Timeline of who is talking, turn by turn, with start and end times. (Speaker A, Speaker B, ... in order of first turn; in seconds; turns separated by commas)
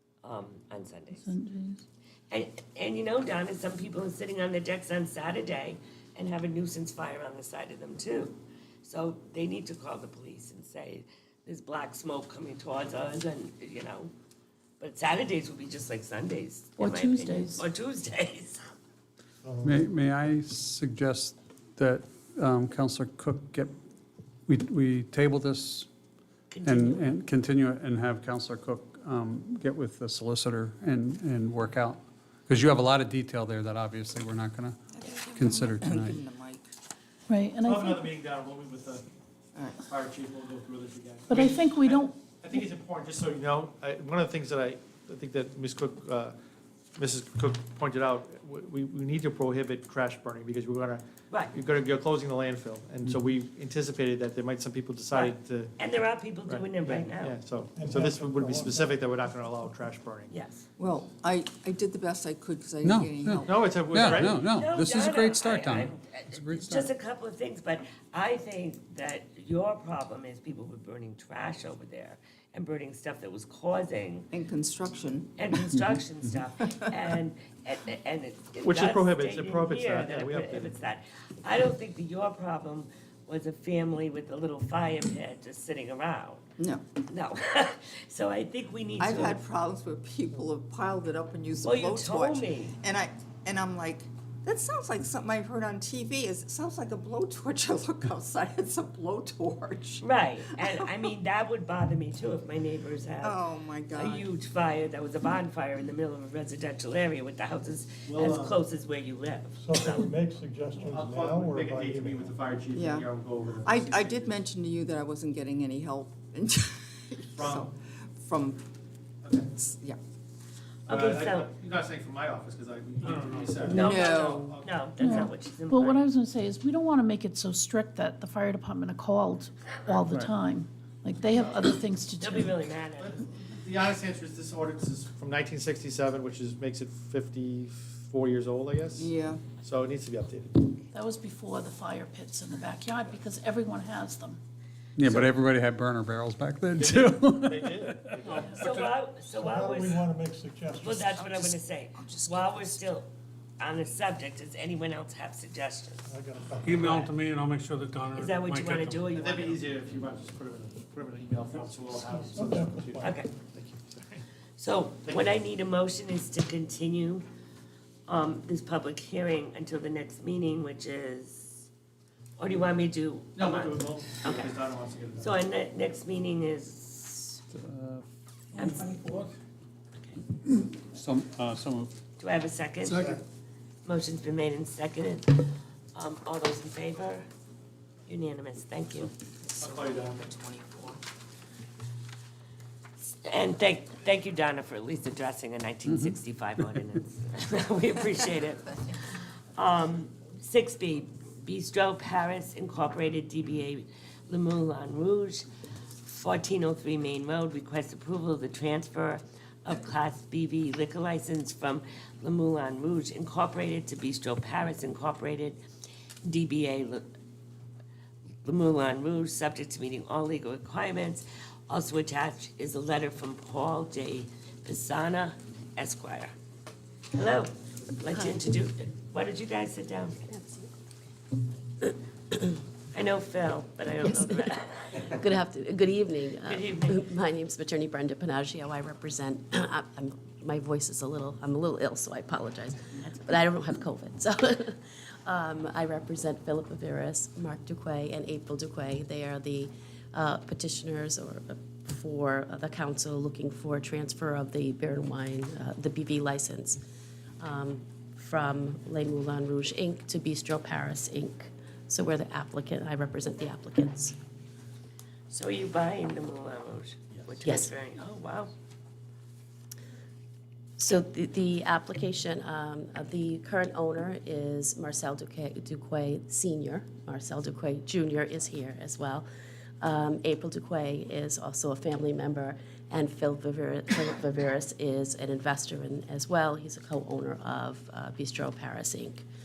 Speaker A: 0.2-1.3, Speaker B: 1.2-1.8, Speaker A: 2.3-14.1, Speaker A: 14.8-18.6, Speaker B: 16.8-17.6, Speaker C: 19.4-19.8, Speaker D: 19.6-23.7, Speaker D: 24.5-25.9, Speaker A: 26.5-27.1, Speaker D: 26.6-36.2, Speaker E: 34.9-36.7, Speaker B: 37.3-38.1, Speaker F: 37.6-39.0, Speaker E: 39.5-39.8, Speaker F: 39.8-46.4, Speaker B: 41.3-42.2, Speaker F: 47.0-55.7, Speaker A: 51.3-51.5, Speaker A: 55.1-57.4, Speaker F: 56.5-60.3, Speaker C: 57.7-59.2, Speaker A: 60.3-60.6, Speaker E: 60.8-63.9, Speaker D: 62.8-66.9, Speaker F: 63.5-64.5, Speaker A: 64.0-74.3, Speaker E: 74.3-75.3, Speaker A: 75.4-86.5, Speaker E: 76.6-76.9, Speaker F: 78.6-80.8, Speaker E: 86.6-86.8, Speaker A: 87.1-89.4, Speaker E: 89.0-100.9, Speaker A: 91.6-92.8, Speaker A: 100.0-110.1, Speaker E: 103.2-104.3, Speaker F: 108.1-108.5, Speaker C: 109.6-112.4, Speaker F: 110.8-114.4, Speaker E: 112.7-118.6, Speaker F: 117.3-117.7, Speaker F: 119.2-119.5, Speaker E: 119.4-120.0, Speaker F: 120.9-124.9, Speaker A: 120.9-121.5, Speaker G: 123.0-123.6, Speaker E: 123.6-124.6, Speaker A: 123.7-126.0, Speaker B: 125.0-132.6, Speaker A: 132.2-133.2, Speaker F: 133.0-140.8, Speaker E: 138.9-139.5, Speaker B: 140.9-144.4, Speaker D: 145.0-148.3, Speaker F: 145.0-145.3, Speaker F: 146.8-148.8, Speaker A: 148.5-150.1, Speaker C: 149.3-151.2, Speaker A: 150.8-156.1, Speaker E: 152.2-152.8, Speaker C: 156.1-157.2, Speaker G: 156.6-158.9, Speaker A: 156.8-157.1, Speaker A: 158.1-159.6, Speaker F: 159.1-164.2, Speaker C: 162.4-162.9, Speaker A: 163.0-163.3, Speaker A: 164.6-167.3, Speaker A: 168.1-171.7, Speaker A: 172.4-174.5, Speaker F: 173.3-175.3, Speaker A: 175.2-177.4, Speaker D: 177.5-178.1, Speaker A: 178.6-179.0, Speaker D: 180.9-181.9, Speaker A: 182.2-183.1, Speaker F: 182.9-183.2, Speaker A: 183.8-187.3, Speaker A: 188.1-189.1, Speaker F: 189.6-190.3, Speaker E: 189.6-191.0, Speaker A: 193.0-205.4, Speaker A: 206.0-215.6, Speaker A: 216.2-217.1, Speaker A: 218.4-226.3, Speaker A: 227.1-230.2, Speaker H: 230.3-230.7, Speaker A: 232.9-235.2, Speaker H: 234.1-234.4, Speaker H: 235.0-256.8, Speaker A: 236.4-237.1, Speaker H: 257.4-264.2, Speaker A: 265.3-268.5, Speaker H: 267.4-267.7, Speaker H: 270.8-279.3, Speaker H: 279.8-289.2